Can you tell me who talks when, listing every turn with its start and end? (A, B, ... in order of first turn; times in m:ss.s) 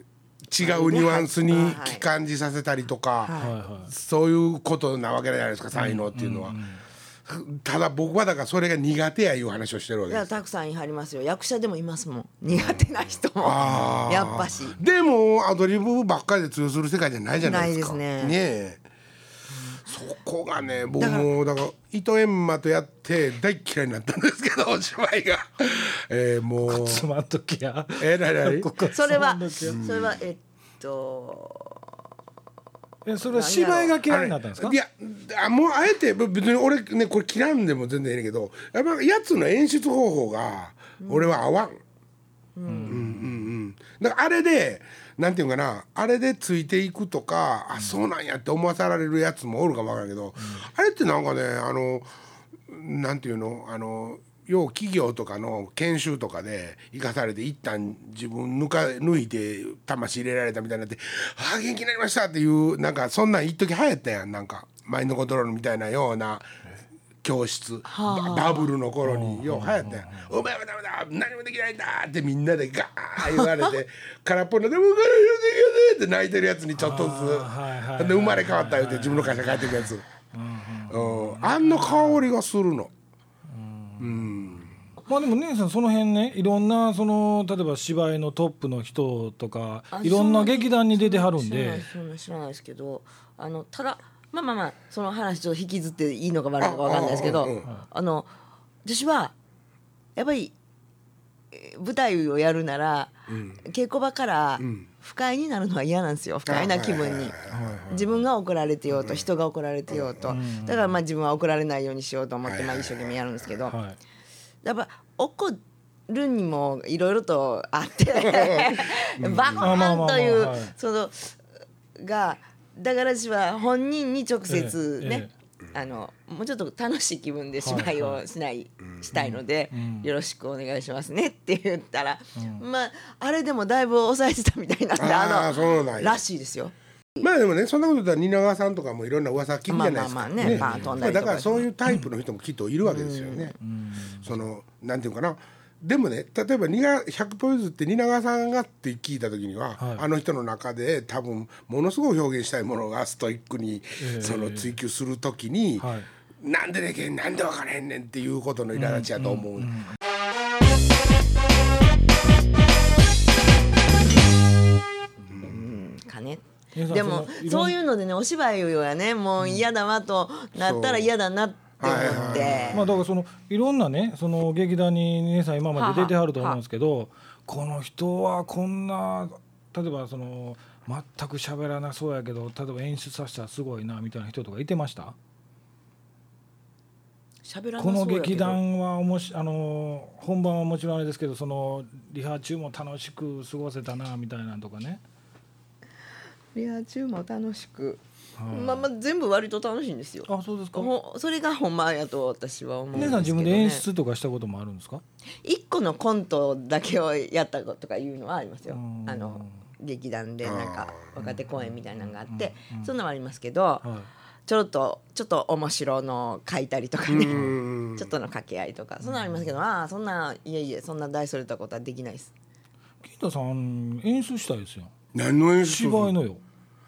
0:00.5-0:03.4 A
0:00.6-0:02.0 B
0:03.2-0:03.5 B
0:03.4-0:03.9 C
0:03.9-0:06.6 A
0:05.8-0:06.8 C
0:07.3-0:10.3 A
0:10.1-0:14.8 B
0:12.5-0:12.9 A
0:13.4-0:18.8 A
0:13.6-0:14.2 C
0:17.4-0:18.4 B
0:19.5-0:19.8 B
0:19.8-0:27.1 A
0:21.0-0:21.3 B
0:26.6-0:29.8 C
0:28.0-0:28.7 A
0:28.9-0:31.8 B
0:29.6-0:30.2 A
0:33.1-0:34.8 C
0:33.3-0:34.0 B
0:34.1-0:41.8 A
0:41.0-0:41.4 B
0:42.6-0:43.0 B
0:42.7-0:43.5 C
0:42.9-0:52.1 A
0:50.4-0:50.7 C
0:52.7-1:06.5 A
1:07.2-1:20.0 A
1:07.9-1:08.7 B
1:09.0-1:10.3 C
1:13.2-1:13.7 B
1:16.8-1:22.2 C
1:20.9-1:22.9 A
1:23.5-1:24.4 C
1:24.0-1:24.7 A
1:25.0-1:31.8 C
1:29.9-1:38.3 B
1:36.6-1:37.7 A
1:38.8-1:39.4 B
1:40.2-1:40.5 B
1:41.5-1:47.4 B
1:43.3-1:43.6 A
1:44.6-1:44.9 A
1:46.5-1:47.8 A
1:47.5-1:48.2 C
1:47.9-1:53.8 B
1:49.9-1:50.4 A
1:50.3-1:50.9 C
1:52.5-1:53.2 A
1:53.7-1:54.0 C
1:54.6-2:01.4 B
1:58.2-1:59.8 A
1:59.6-2:00.7 C
2:02.0-2:16.7 B
2:04.5-2:05.3 C
2:07.6-2:08.2 C
2:09.1-2:10.1 C
2:12.4-2:12.6 C
2:15.0-2:16.2 A
2:17.2-2:23.6 A
2:19.7-2:21.7 B
2:20.4-2:21.0 C
2:22.8-2:23.6 B
2:23.6-2:24.3 C
2:24.2-2:35.9 A
2:29.8-2:30.0 C
2:34.0-2:34.7 C
2:35.8-2:36.1 C
2:36.4-2:39.7 A
2:38.8-2:40.0 C
2:45.4-2:52.8 B
2:46.8-2:47.8 C
2:50.6-2:51.1 A
2:51.8-2:53.0 A
2:51.9-3:05.2 C
2:55.7-2:56.6 B
3:07.4-3:08.6 B
3:07.8-3:15.0 C
3:16.6-3:23.8 B
3:18.4-3:18.8 C
3:20.3-3:20.9 C
3:23.0-3:23.2 A
3:23.0-3:25.0 C
3:25.4-3:33.9 B
3:28.7-3:29.6 C
3:30.4-3:31.0 A
3:31.2-3:32.9 C
3:33.8-3:34.1 C
3:34.5-3:42.3 B
3:37.1-3:38.1 A
3:39.0-3:39.5 C
3:43.0-3:44.9 C
3:45.1-3:46.1 A
3:45.6-3:46.4 C